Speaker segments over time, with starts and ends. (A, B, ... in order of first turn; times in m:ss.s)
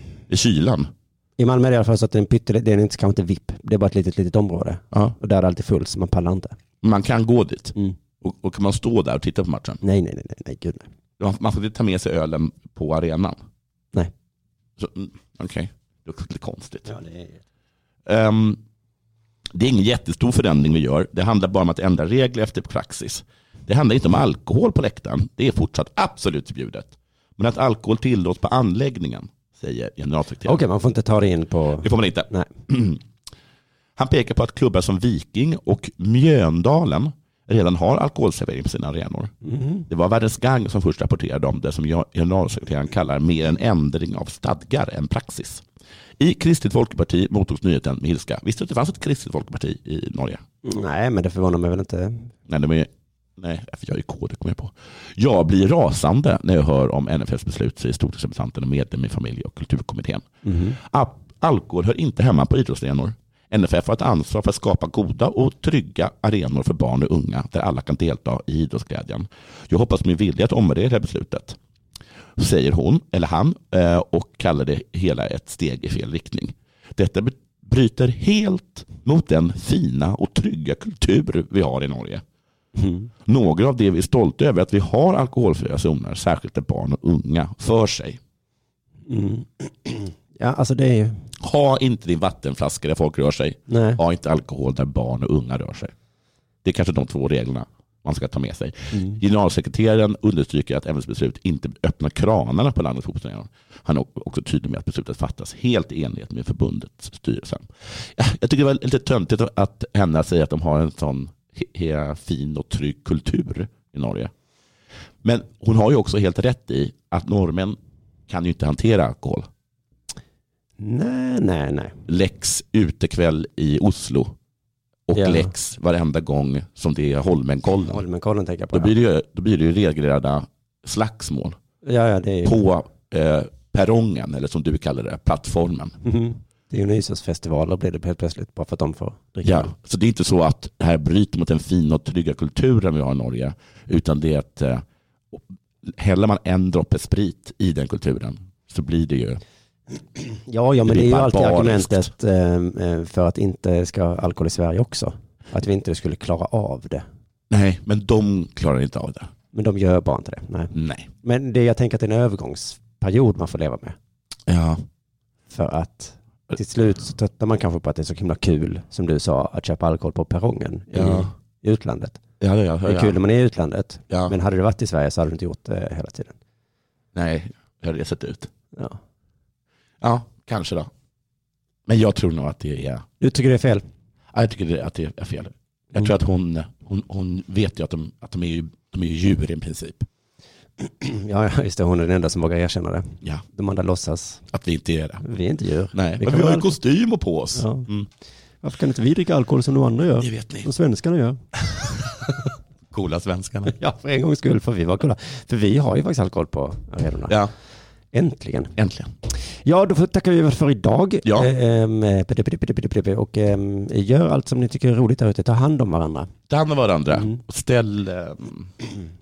0:00.3-0:00.9 A
0:01.4-0:06.6 B
0:06.8-0:09.8 A
0:09.8-0:10.9 B
0:11.2-0:13.4 A
0:14.8-0:16.9 A
0:16.9-0:17.4 B
0:18.1-0:18.6 A
0:19.5-0:30.6 A
0:30.5-0:32.5 B
0:31.8-0:33.0 A
0:34.0-0:39.3 A
0:39.4-0:39.9 B
0:39.9-0:45.6 A
0:46.2-0:50.4 A
0:50.6-0:52.3 B
0:52.5-1:11.6 A
1:00.4-1:00.8 B
1:12.4-1:22.2 A
1:22.8-1:23.1 B
1:23.3-1:28.2 A
1:29.1-1:31.2 B
1:31.4-1:35.9 A
1:33.7-1:34.0 B
1:36.6-1:54.3 A
1:38.9-1:39.2 B
1:55.2-1:57.8 A
1:58.3-1:59.5 A
2:00.8-2:02.0 B
2:02.1-2:04.4 A
2:05.1-2:08.0 A
2:05.1-2:05.5 B
2:07.9-2:08.9 B
2:08.7-2:11.6 A
2:11.8-2:12.6 B
2:12.4-2:16.0 A
2:16.0-2:19.7 B
2:19.4-2:29.4 A
2:30.3-2:37.0 B
2:30.9-2:32.1 A
2:37.5-2:39.3 A
2:39.5-2:44.0 B
2:40.7-2:41.1 A
2:44.5-2:44.8 A
2:45.5-2:52.2 B
2:50.9-2:51.3 A
2:52.4-2:53.2 A
2:52.8-2:56.4 B
2:57.2-2:58.5 A
3:00.0-3:00.9 A
3:01.9-3:03.0 A
3:03.2-3:03.8 B
3:04.3-3:10.1 A
3:10.8-3:14.4 B
3:14.5-3:15.2 A
3:15.2-3:16.7 B
3:15.9-3:18.1 A
3:17.6-3:17.9 B
3:18.6-3:21.4 B
3:20.2-3:20.7 A
3:22.9-3:23.8 A
3:23.7-3:27.4 B
3:28.1-3:28.7 B
3:28.8-3:29.1 A
3:29.6-3:36.3 B
3:31.2-3:31.5 A
3:36.5-3:38.7 A